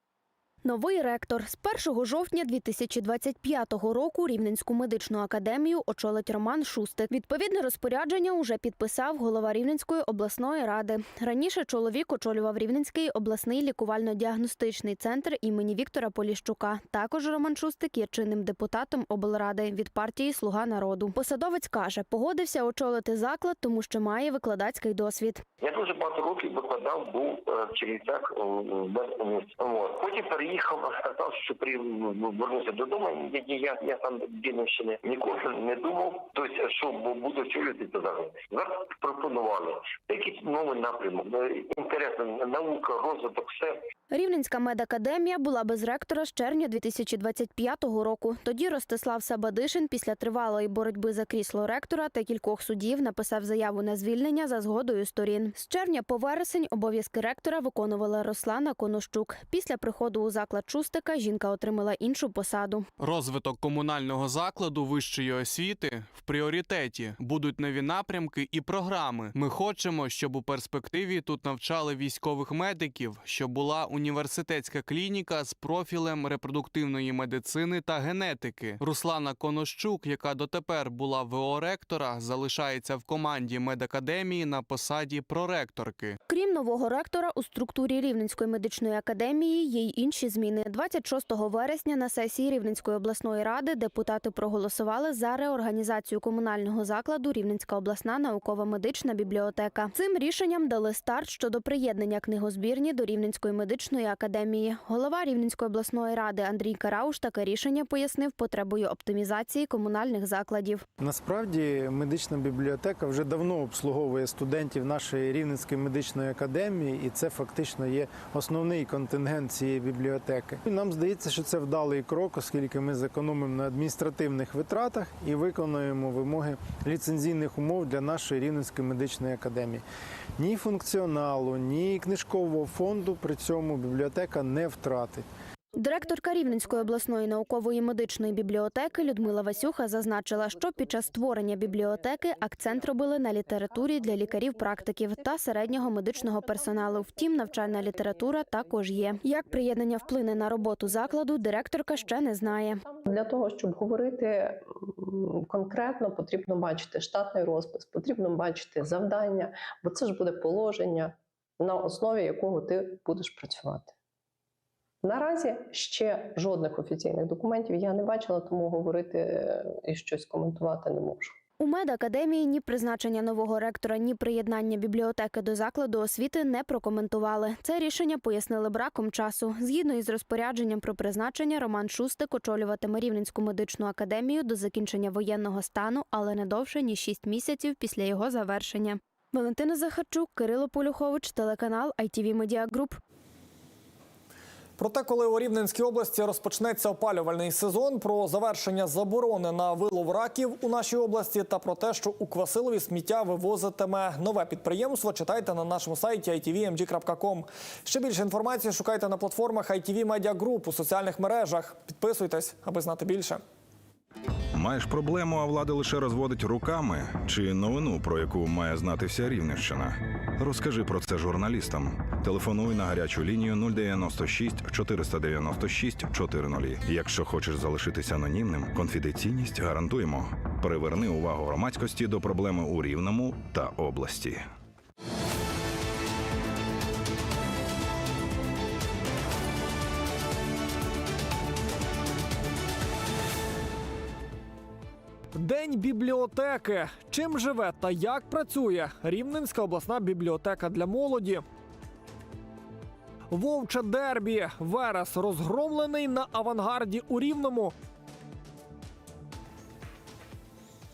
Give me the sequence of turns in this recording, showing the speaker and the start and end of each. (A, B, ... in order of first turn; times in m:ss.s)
0:00.6-0:25.4 A
0:25.6-0:43.8 B
0:44.1-1:02.9 A
1:03.0-1:26.2 C
1:26.3-1:50.8 A
1:51.0-2:09.8 D
2:10.4-2:15.3 D
2:15.8-2:32.8 A
2:33.0-2:43.9 E
2:45.0-2:51.4 E
2:51.6-3:13.0 A
3:14.8-3:33.4 F
3:34.5-3:54.5 G
4:05.3-4:11.4 F
4:13.3-4:17.8 F